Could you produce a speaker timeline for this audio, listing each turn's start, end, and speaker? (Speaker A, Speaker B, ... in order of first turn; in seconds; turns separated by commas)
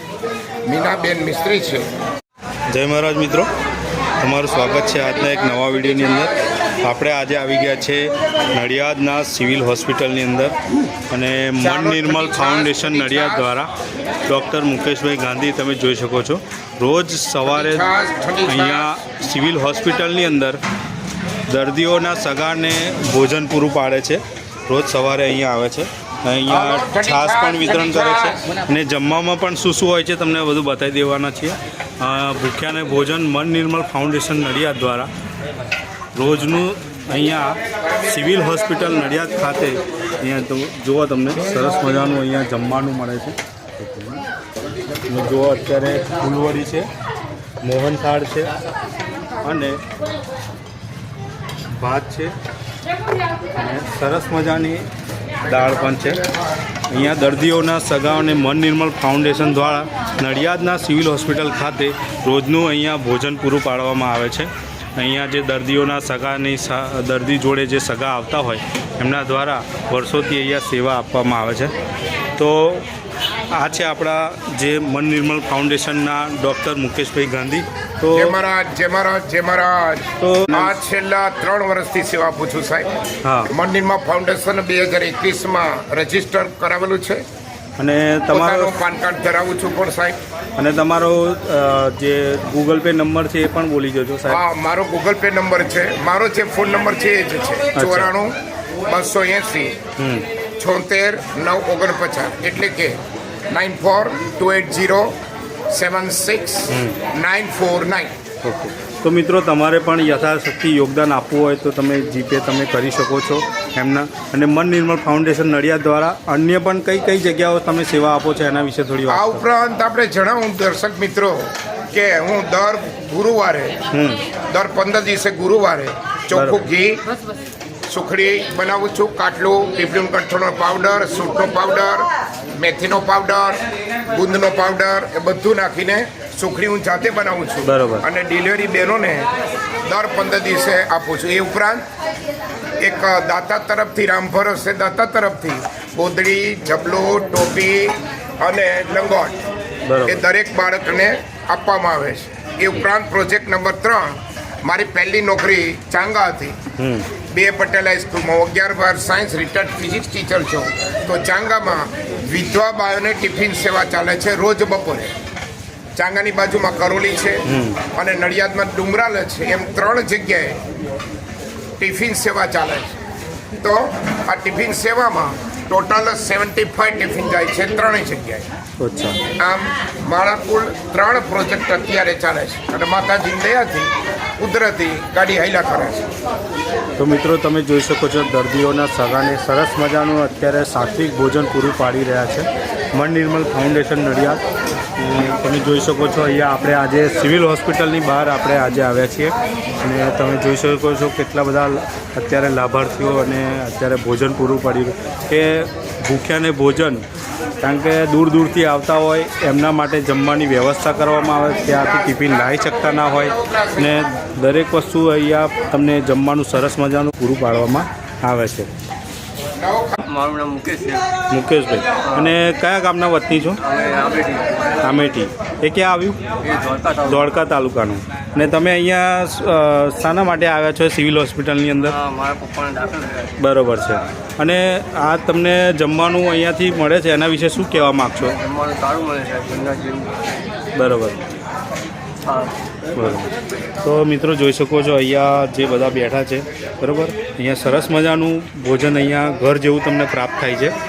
Speaker A: 0.7-1.8, Speaker B: 2.7-3.5, Speaker B: 4.2-10.5, Speaker B: 11.1-13.7, Speaker A: 11.6-13.5, Speaker B: 14.3-17.9, Speaker A: 17.4-18.9, Speaker B: 18.5-20.6, Speaker B: 21.5-35.1, Speaker A: 26.5-28.5, Speaker B: 36.1-44.2, Speaker B: 45.1-46.9, Speaker B: 47.6-48.5, Speaker B: 49.4-49.8, Speaker B: 51.8-52.3, Speaker B: 53.5-54.9, Speaker B: 55.4-56.2, Speaker B: 56.9-71.7, Speaker B: 72.4-72.8, Speaker B: 73.5-78.3, Speaker A: 78.1-82.9, Speaker B: 80.2-80.8, Speaker B: 83.2-83.5, Speaker A: 83.5-87.2, Speaker B: 87.8-88.7, Speaker A: 88.3-90.2, Speaker B: 90.6-94.4, Speaker A: 94.3-98.3, Speaker B: 97.7-98.1, Speaker A: 98.9-99.8, Speaker B: 100.0-100.2, Speaker A: 100.6-103.0, Speaker A: 103.5-105.1, Speaker A: 105.7-108.1, Speaker B: 106.7-107.0, Speaker B: 108.4-119.4, Speaker A: 119.1-123.8, Speaker B: 123.9-124.2, Speaker A: 124.5-127.0, Speaker B: 126.3-126.7, Speaker A: 127.9-139.2, Speaker B: 137.6-138.0, Speaker A: 139.9-141.8, Speaker A: 142.8-149.4, Speaker B: 149.8-150.2, Speaker A: 150.1-154.1, Speaker A: 154.6-156.5, Speaker B: 156.8-157.1, Speaker A: 157.3-165.1, Speaker A: 165.9-170.6, Speaker B: 167.4-167.8, Speaker A: 171.8-172.9, Speaker A: 173.6-178.4, Speaker B: 178.8-179.2, Speaker A: 179.4-186.1, Speaker B: 187.0-194.4, Speaker B: 195.0-207.0, Speaker B: 207.6-218.7, Speaker A: 212.3-213.9, Speaker A: 219.6-220.0, Speaker C: 220.0-221.1, Speaker B: 221.3-223.6, Speaker C: 222.1-222.3, Speaker C: 223.6-224.7, Speaker B: 224.8-226.2, Speaker C: 226.4-227.3, Speaker B: 227.1-232.0, Speaker C: 231.8-233.3, Speaker B: 233.4-238.4, Speaker C: 238.2-240.2, Speaker B: 240.7-241.2, Speaker C: 242.2-242.5, Speaker B: 242.9-243.3, Speaker B: 243.8-250.7